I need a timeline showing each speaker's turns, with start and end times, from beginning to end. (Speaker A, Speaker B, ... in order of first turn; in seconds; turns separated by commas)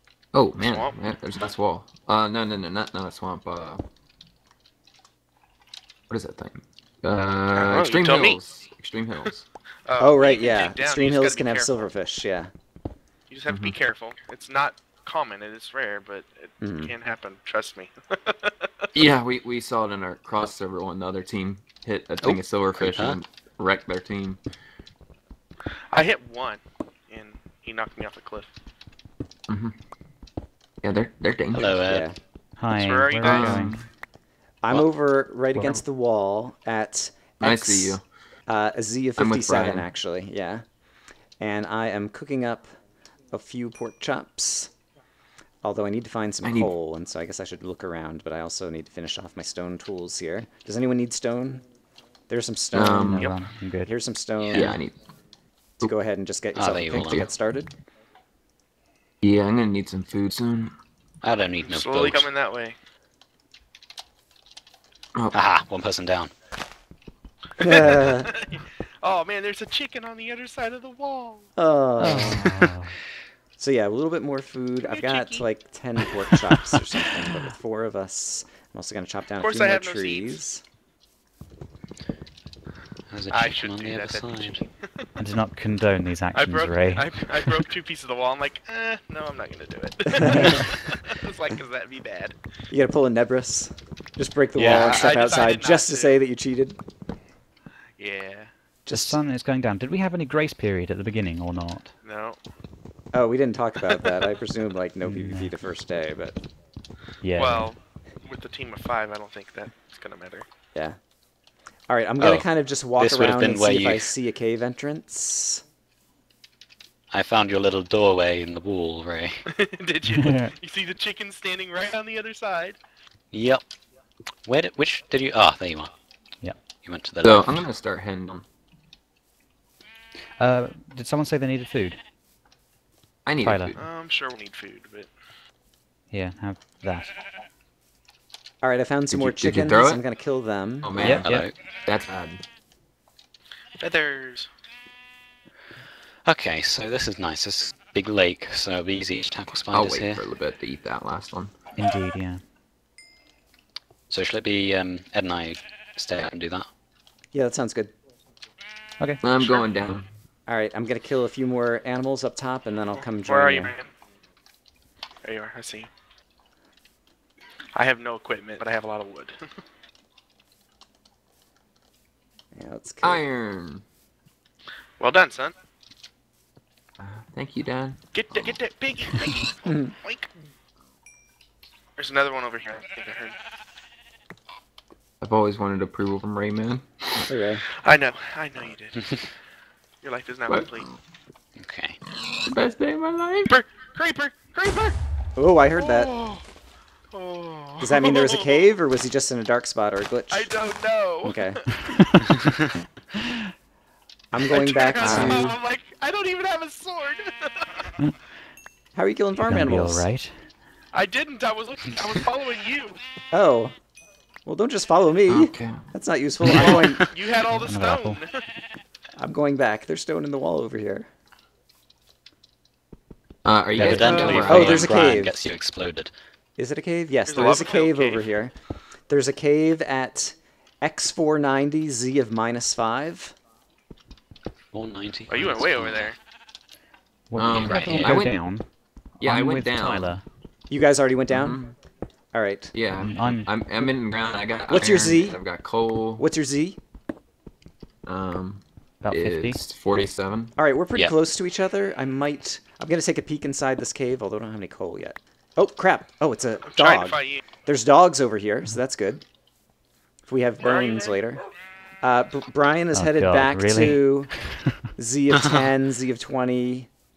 Speaker A: 0.3-3.8, Speaker B: 0.6-1.0, Speaker A: 6.1-9.5, Speaker B: 7.5-8.4, Speaker B: 9.9-11.9, Speaker C: 10.0-12.5, Speaker B: 13.3-18.9, Speaker A: 13.5-13.8, Speaker C: 16.6-16.9, Speaker A: 18.9-24.4, Speaker D: 22.8-23.2, Speaker B: 25.9-28.5, Speaker A: 29.5-29.8, Speaker A: 30.8-31.8, Speaker D: 31.5-32.1, Speaker C: 31.8-32.2, Speaker E: 32.6-33.9, Speaker B: 32.7-33.7, Speaker A: 33.2-33.9, Speaker C: 34.6-40.6, Speaker E: 35.5-35.8, Speaker A: 37.4-38.0, Speaker A: 39.2-39.9, Speaker C: 41.4-42.7, Speaker C: 43.3-44.7, Speaker C: 45.6-51.7, Speaker A: 46.4-46.7, Speaker C: 52.3-54.8, Speaker A: 52.7-53.3, Speaker E: 53.1-53.9, Speaker D: 54.4-54.8, Speaker A: 54.5-55.0, Speaker C: 55.8-57.8, Speaker D: 56.5-57.3, Speaker A: 57.0-57.3, Speaker A: 59.2-60.8, Speaker D: 61.2-62.3, Speaker B: 61.6-62.8, Speaker D: 65.3-66.3, Speaker C: 67.6-68.3, Speaker B: 67.6-71.5, Speaker C: 71.6-72.6, Speaker E: 72.0-73.0, Speaker C: 73.6-80.6, Speaker B: 74.8-75.5, Speaker B: 79.4-80.4, Speaker D: 83.1-84.6, Speaker B: 83.3-85.1, Speaker E: 85.2-87.2, Speaker B: 86.3-92.4, Speaker E: 90.2-90.7, Speaker C: 92.7-96.8, Speaker D: 94.6-95.1, Speaker B: 94.6-96.2, Speaker B: 98.0-98.5, Speaker C: 98.9-99.2, Speaker E: 98.9-101.9, Speaker B: 102.0-102.4, Speaker C: 103.1-106.4, Speaker E: 105.0-105.5, Speaker E: 107.2-107.7, Speaker B: 107.3-110.5, Speaker C: 111.9-115.6, Speaker D: 112.2-114.1, Speaker D: 117.1-119.5, Speaker B: 119.5-122.8, Speaker E: 120.2-120.5, Speaker D: 123.3-123.6, Speaker D: 124.5-125.9, Speaker D: 126.8-127.6, Speaker A: 127.2-128.4, Speaker E: 130.4-132.0, Speaker A: 133.2-133.8, Speaker E: 133.4-133.8, Speaker B: 133.8-135.1, Speaker E: 136.1-137.2, Speaker C: 138.6-141.2, Speaker A: 139.1-140.0, Speaker A: 140.8-142.4, Speaker E: 141.0-141.5, Speaker D: 141.1-141.6, Speaker B: 143.8-144.5, Speaker D: 146.2-150.2, Speaker A: 149.7-151.5, Speaker E: 151.8-152.4, Speaker D: 154.1-156.7, Speaker C: 157.3-157.9, Speaker A: 159.2-160.1, Speaker C: 160.5-163.7, Speaker B: 163.1-163.9, Speaker B: 165.2-165.9, Speaker B: 167.7-169.4, Speaker C: 172.6-173.2, Speaker A: 173.0-173.8, Speaker B: 175.0-175.6, Speaker A: 177.0-178.6, Speaker B: 178.1-180.3, Speaker B: 182.0-183.4, Speaker A: 185.2-187.3, Speaker C: 187.3-187.7, Speaker B: 187.8-189.2, Speaker B: 190.0-190.9, Speaker A: 190.5-190.8, Speaker D: 191.6-192.0, Speaker A: 192.4-193.5, Speaker B: 193.5-195.0, Speaker C: 195.4-196.1, Speaker B: 195.8-196.4, Speaker B: 197.1-198.7, Speaker C: 197.8-200.5, Speaker B: 200.3-201.6, Speaker C: 201.2-201.6, Speaker C: 204.3-205.5, Speaker B: 204.5-207.9, Speaker A: 205.0-205.6, Speaker C: 208.9-210.1, Speaker E: 209.4-210.5, Speaker B: 210.9-213.0, Speaker C: 213.3-213.8, Speaker C: 214.4-217.1, Speaker A: 215.3-215.8, Speaker B: 216.4-218.5, Speaker E: 217.5-218.2, Speaker C: 219.2-221.1, Speaker A: 223.4-225.2, Speaker E: 223.8-224.5, Speaker D: 223.8-226.1, Speaker B: 224.0-224.7, Speaker C: 224.4-225.5, Speaker C: 226.6-228.5, Speaker B: 227.3-228.3, Speaker C: 229.1-233.3, Speaker D: 234.7-236.2, Speaker B: 235.3-236.2, Speaker E: 237.3-240.2, Speaker A: 237.3-238.4, Speaker D: 237.6-238.2, Speaker A: 239.2-240.2, Speaker C: 240.7-241.7, Speaker A: 241.3-241.7, Speaker C: 242.3-242.8, Speaker A: 242.7-246.3, Speaker E: 242.9-243.5, Speaker C: 244.7-245.4, Speaker C: 246.2-246.8, Speaker A: 248.1-250.6, Speaker E: 249.0-249.6, Speaker C: 250.6-259.2, Speaker B: 256.7-257.4, Speaker C: 260.3-261.4, Speaker B: 260.6-261.2, Speaker C: 262.0-266.9, Speaker E: 262.9-264.7